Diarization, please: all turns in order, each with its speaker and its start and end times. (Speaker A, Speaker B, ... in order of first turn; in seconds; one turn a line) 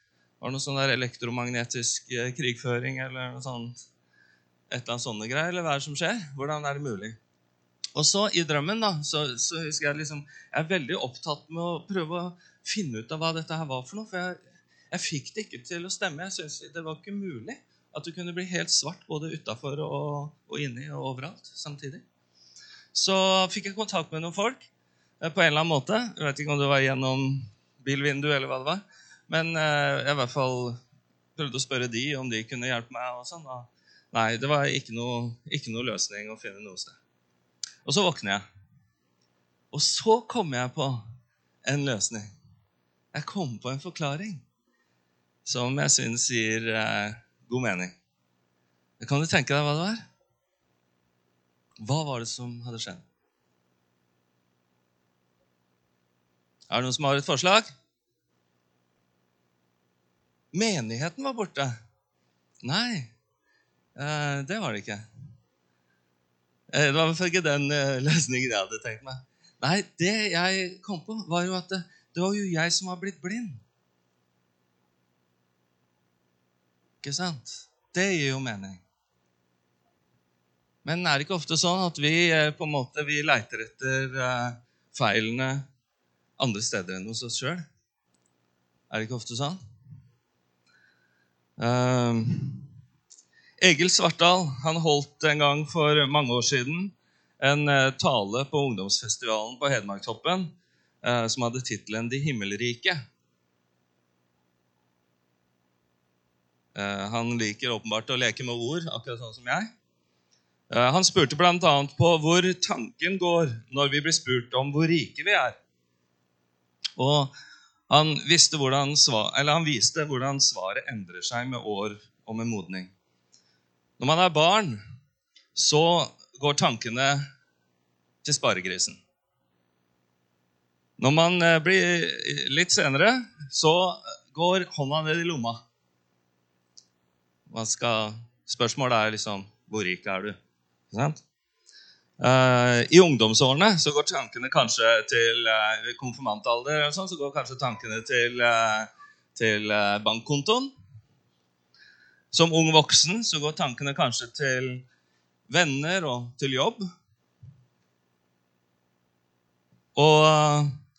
Speaker A: 0.4-3.8
Speaker A: 4.7-7.2
Speaker A: 7.9-22.0
Speaker A: 22.9-24.7
Speaker A: 25.2-30.8
Speaker A: 31.4-37.0
Speaker A: 37.8-38.4
Speaker A: 39.7-41.0
Speaker A: 41.6-42.3
Speaker A: 43.1-44.4
Speaker A: 45.4-48.0
Speaker A: 49.0-50.0
Speaker A: 51.8-53.0
Speaker A: 56.7-57.7
Speaker A: 60.5-61.7
Speaker A: 62.6-63.1
Speaker A: 64.0-65.0
Speaker A: 66.7-73.6
Speaker A: 77.0-78.8
Speaker A: 80.8-85.7
Speaker A: 86.4-87.7
Speaker A: 88.9-89.6
Speaker A: 91.6-92.7
Speaker A: 93.6-103.0
Speaker A: 106.7-109.7
Speaker A: 110.7-115.5
Speaker A: 117.0-117.3
Speaker A: 117.9-122.9
Speaker A: 124.0-124.8
Speaker A: 125.5-127.2
Speaker A: 128.2-129.0
Speaker A: 131.0-135.6
Speaker A: 137.5-140.4
Speaker A: 140.9-141.2
Speaker A: 142.2-150.7
Speaker A: 152.3-154.8
Speaker A: 155.5-156.8
Speaker A: 159.9-160.7